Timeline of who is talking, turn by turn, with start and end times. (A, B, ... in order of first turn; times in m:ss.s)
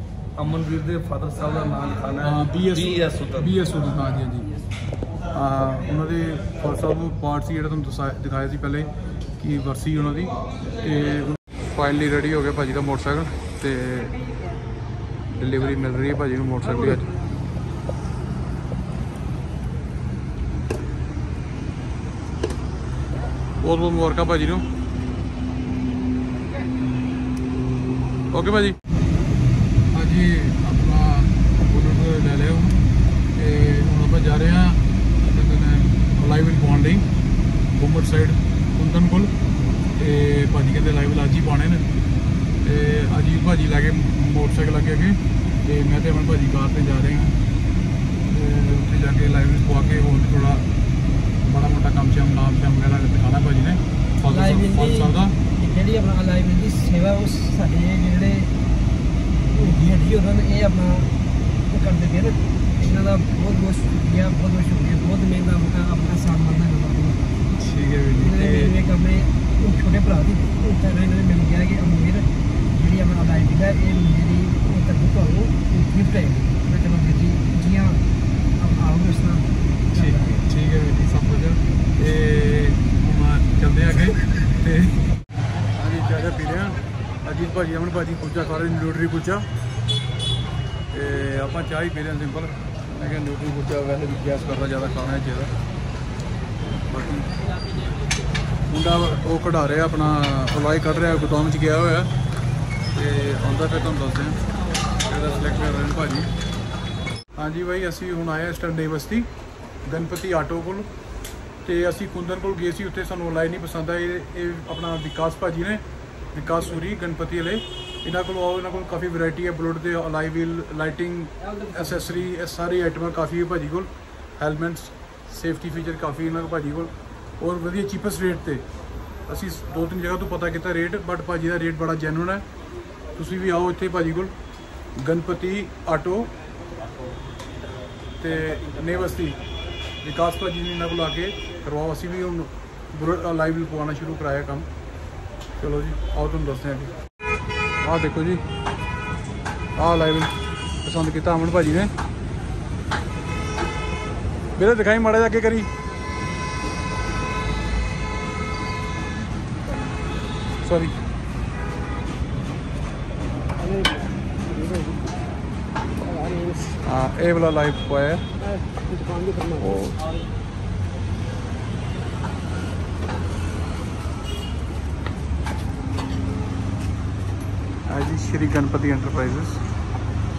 0:00.3-0:03.6 A
0:02.2-0:04.5 B
0:05.3-0:14.2 B
0:15.3-0:17.1 B
0:23.6-0:24.6 B
0:28.3-0:28.8 B
0:29.9-0:32.8 B
0:33.3-0:37.0 B
0:37.7-0:39.3 B
0:40.0-0:41.8 B
0:42.6-0:47.4 B
0:48.3-0:50.6 B
0:51.4-0:55.4 B
0:54.2-0:58.5 C
0:59.5-1:01.1 C
1:01.7-1:07.3 C
1:07.6-1:08.7 B
1:08.1-1:18.0 C
1:18.6-1:20.4 C
1:19.9-1:25.0 B
1:25.7-1:29.4 B
1:30.9-1:35.5 B
1:36.9-1:37.3 B
1:38.7-1:42.1 B
1:42.9-1:44.4 B
1:45.0-1:46.3 B
1:47.4-1:49.3 B
1:49.8-1:50.9 B
1:51.6-2:08.6 B
2:01.4-2:02.3 C
2:09.3-2:12.4 B
2:13.2-2:14.3 B
2:15.0-2:16.3 B
2:18.2-2:19.4 B
2:20.0-2:24.7 B
2:25.6-2:26.9 B
2:27.8-2:28.4 B
2:29.8-2:31.9 B
2:34.5-2:35.7 B
2:40.6-2:40.9 B
2:43.6-2:45.2 C
2:46.0-2:46.8 C
2:46.8-2:48.2 B
2:48.4-2:49.9 C
2:49.6-2:50.0 B
2:57.8-2:59.6 B